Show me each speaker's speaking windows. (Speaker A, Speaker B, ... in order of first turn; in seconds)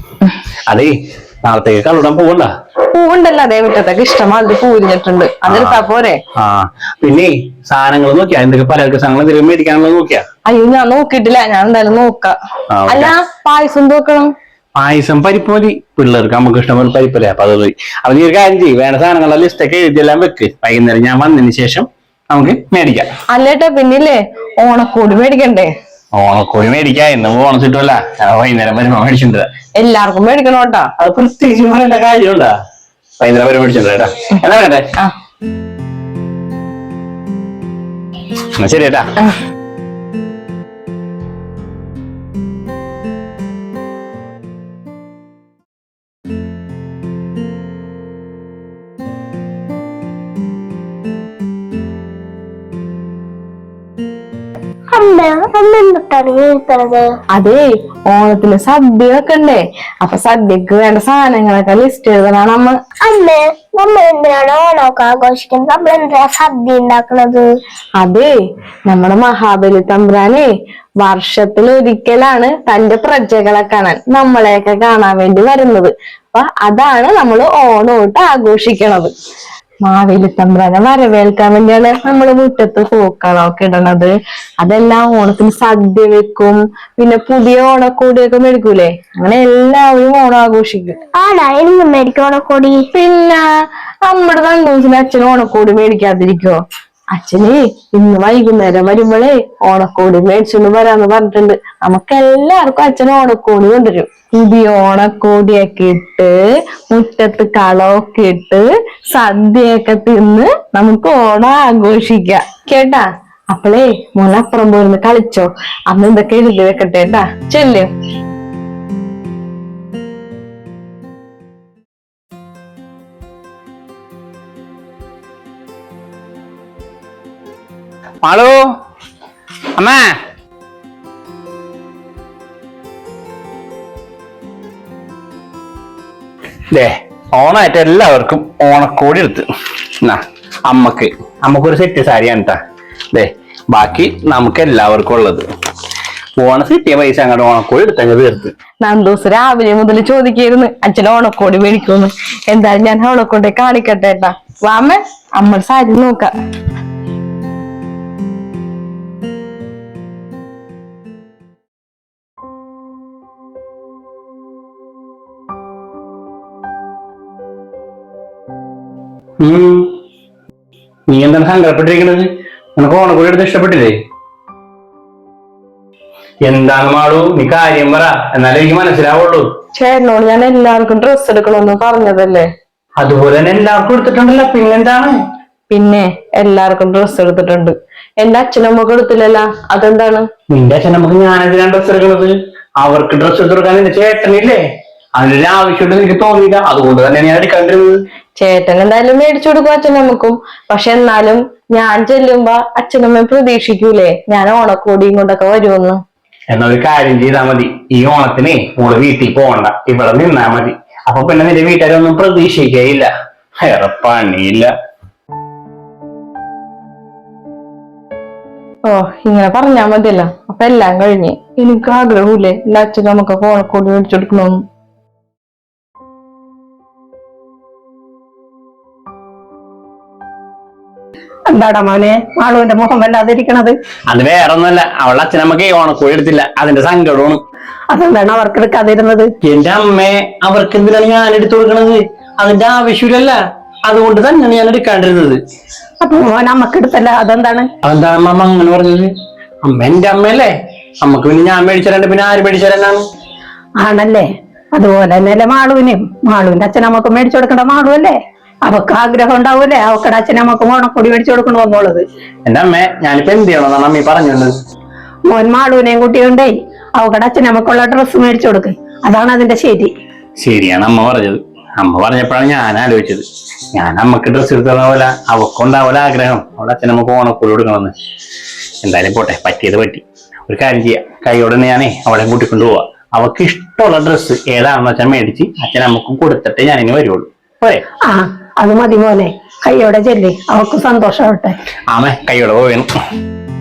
Speaker A: 1.4-2.5, 5.5-5.8, 6.4-10.2, 12.7-13.1, 14.8-23.1, 26.2-29.5, 31.0-32.5, 33.2-34.9, 38.6-39.1, 128.2-128.6, 129.8-130.2, 136.7-139.5, 140.0-142.6, 143.1-145.5, 146.4-148.5, 169.4-169.9, 171.1-173.9, 176.5-179.5, 183.0-185.1, 190.5-194.6, 195.2-197.9, 206.5-213.1, 213.6-214.7, 234.1-237.4, 239.4-245.4, 247.8-249.1, 249.6-253.0, 262.5-264.5, 270.4-273.2, 273.8-277.9, 278.8-287.8, 291.9-292.9
Speaker B: 2.9-6.2, 10.5-12.3, 12.9-14.3, 23.3-25.7, 29.8-30.9, 57.4-62.8, 68.0-68.3, 68.9-70.5, 71.0-79.1, 79.9-91.0, 93.0-93.4, 94.0-96.6, 97.1-106.3, 106.9-117.9, 148.8-156.3, 179.8-182.5, 185.7-190.3, 198.4-206.0, 218.9-224.6
Speaker C: 55.0-57.0, 63.1-67.4, 91.2-92.7
Speaker D: 231.5-233.8, 237.9-239.3, 246.0-247.7, 253.8-262.1, 265.3-269.9, 288.1-291.6